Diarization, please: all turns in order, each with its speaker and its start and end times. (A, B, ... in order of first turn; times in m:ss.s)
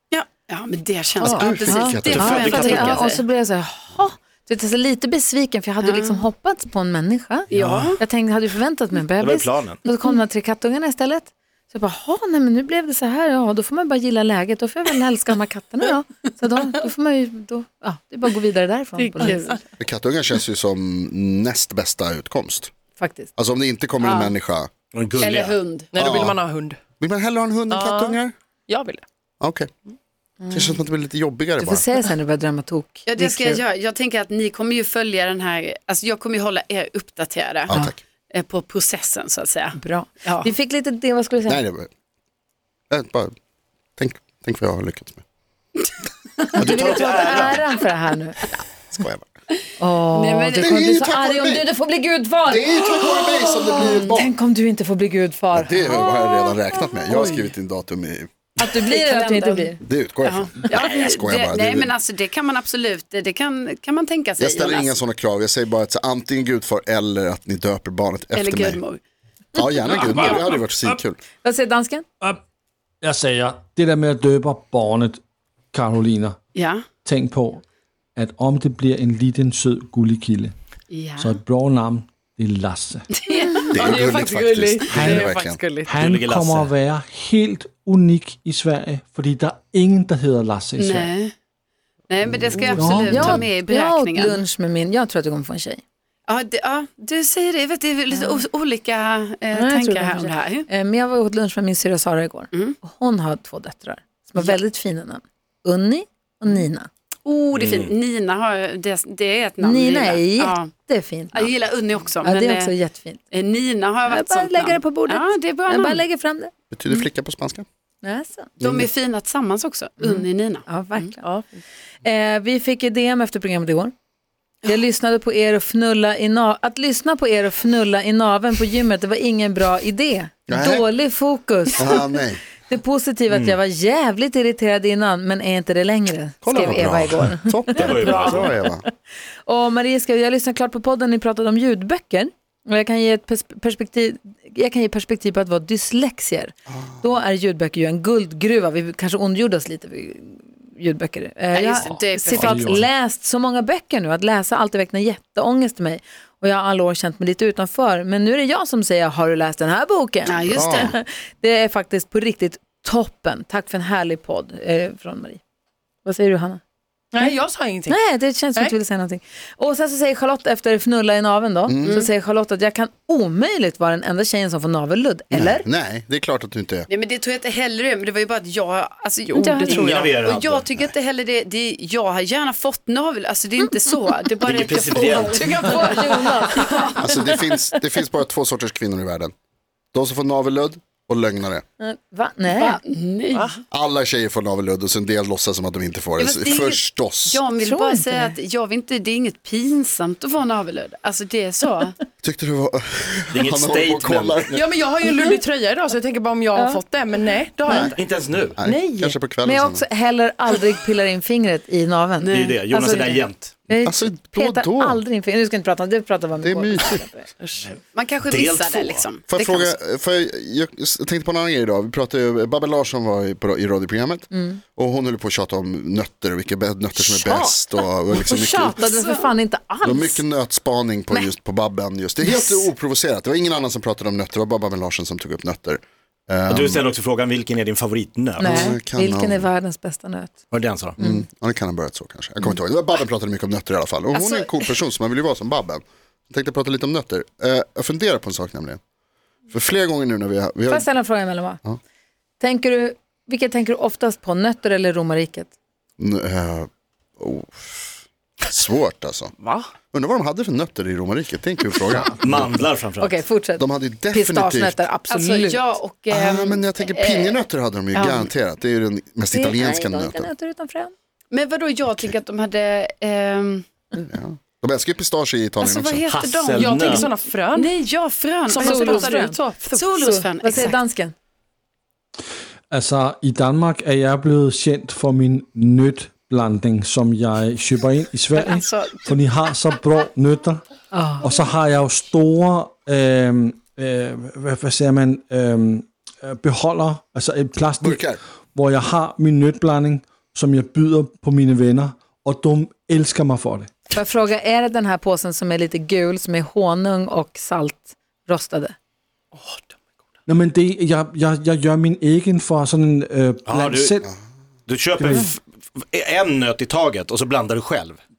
0:00.1-0:03.2 A
0:01.2-0:19.6 B
0:01.2-0:02.6 C
0:02.1-0:03.0 D
0:05.8-0:06.2 A
0:07.5-0:08.0 A
0:07.5-0:07.9 D
0:09.2-0:09.8 D
0:19.2-0:19.5 A
0:19.8-0:22.7 C
0:23.0-0:23.3 B
0:23.4-0:24.7 C
0:24.0-0:24.3 B
0:24.9-0:25.6 D
0:25.2-0:26.1 A
0:25.9-0:26.8 E
0:26.0-0:26.4 C
0:27.0-0:28.3 C
0:27.7-0:29.0 E
0:29.4-0:29.7 C
0:30.4-0:30.8 B
0:30.5-0:31.8 C
0:31.6-0:33.6 B
0:33.1-0:37.7 A
0:37.7-0:38.0 C
0:38.3-0:40.5 A
0:39.8-0:41.6 B
0:41.4-0:41.9 C
0:42.9-0:43.3 C
0:44.0-0:45.2 C
0:46.5-0:48.4 B
0:46.6-0:47.5 A
0:46.6-0:47.6 D
0:48.9-0:49.2 C
0:49.8-0:56.1 B
0:50.1-0:50.8 A
0:50.6-0:51.7 C
0:52.4-0:54.3 C
0:55.5-0:58.3 C
0:57.1-0:57.4 B
0:58.6-0:59.8 B
0:58.8-0:59.7 A
0:59.8-1:01.9 C
1:00.2-1:04.9 A
1:00.7-1:01.0 D
1:04.4-1:08.8 C
1:08.3-1:09.0 A
1:09.5-1:11.2 C
1:09.9-1:10.9 F
1:10.0-1:10.3 A
1:11.4-1:12.0 B
1:13.0-1:15.2 F
1:15.7-1:16.4 F
1:16.5-1:16.8 A
1:17.0-1:17.6 F
1:18.2-1:20.5 F
1:20.9-1:21.4 A
1:21.2-1:23.0 F
1:23.1-1:24.0 A
1:23.7-1:25.6 C
1:23.8-1:25.9 E
1:24.9-1:31.1 F
1:26.0-1:26.7 D
1:30.8-1:31.3 A
1:32.1-1:34.4 A
1:32.7-1:33.5 F
1:32.9-1:35.8 B
1:36.3-1:40.7 A
1:38.1-1:38.4 B
1:39.5-1:46.9 B
1:47.2-1:50.7 A
1:47.5-1:47.9 D
1:49.6-1:51.5 B
1:51.3-1:52.7 A
1:52.2-1:53.2 B
1:53.3-1:56.0 A
1:54.1-1:56.5 B
1:56.7-1:57.6 C
1:58.0-1:58.5 B
1:58.6-1:58.9 C
1:58.6-2:01.1 A
2:00.0-2:01.2 B
2:02.0-2:03.9 B
2:04.6-2:12.1 B
2:10.5-2:10.9 C
2:11.8-2:12.4 C
2:12.7-2:18.7 B
2:13.3-2:13.6 D
2:16.4-2:18.8 C
2:17.7-2:18.5 D
2:19.4-2:45.4 B
2:26.7-2:27.1 C
2:31.5-2:32.8 A
2:32.4-2:32.9 F
2:40.2-2:40.9 A
2:40.5-2:40.9 C
2:46.0-2:46.6 B
2:47.1-2:48.0 E
2:47.9-2:55.6 B
2:51.7-2:52.0 C
2:55.3-2:56.9 C
2:56.9-3:07.5 A
2:59.3-3:00.1 E
2:59.6-3:00.7 D
3:04.4-3:06.0 D
3:05.6-3:07.1 B
3:07.0-3:09.3 C
3:09.9-3:11.6 C
3:11.8-3:12.8 B
3:12.5-3:13.6 A
3:13.7-3:17.4 C
3:16.2-3:22.0 A
3:17.6-3:18.3 B
3:22.2-3:24.7 C
3:23.3-3:24.4 D
3:24.5-3:29.1 E
3:26.5-3:26.8 B
3:27.7-3:27.9 B
3:27.7-3:27.9 C
3:28.0-3:28.6 D
3:28.6-3:29.9 C
3:29.4-3:37.3 B
3:32.2-3:33.6 D
3:33.7-3:35.0 C
3:36.4-3:37.0 C
3:37.6-3:39.1 D
3:37.9-3:39.7 A
3:39.3-3:48.9 C
3:44.3-3:44.6 B
3:47.0-3:50.2 B
3:48.9-3:49.3 A
3:49.8-3:56.8 C
3:52.2-3:52.7 B
3:56.5-3:58.7 D
3:58.4-4:00.4 B
3:58.4-3:59.5 C
4:00.5-4:01.0 D
4:01.0-4:08.8 C
4:04.1-4:04.6 B
4:09.5-4:10.9 C
4:10.7-4:11.6 B
4:12.4-4:15.5 B
4:16.0-4:19.3 C
4:19.9-4:22.6 C
4:22.0-4:23.2 D
4:23.0-4:25.7 B
4:23.6-4:24.8 C
4:25.1-4:27.4 A
4:26.1-4:30.3 C
4:27.9-4:28.3 A
4:29.3-4:30.9 B
4:31.3-4:33.6 A
4:31.9-4:32.2 C
4:34.1-4:36.0 C
4:35.6-4:39.2 A
4:36.1-4:37.1 D
4:36.6-4:37.7 E
4:38.4-4:39.8 E
4:38.5-4:41.1 B
4:39.7-4:40.8 A
4:42.7-4:50.6 F
4:48.3-4:49.1 A
4:50.9-4:51.2 B
4:51.2-5:03.7 F
4:57.8-4:58.2 C
5:03.9-5:08.7 B
5:10.2-5:14.1 F
5:13.4-5:13.9 D
5:14.7-5:18.0 D
5:15.0-5:15.3 F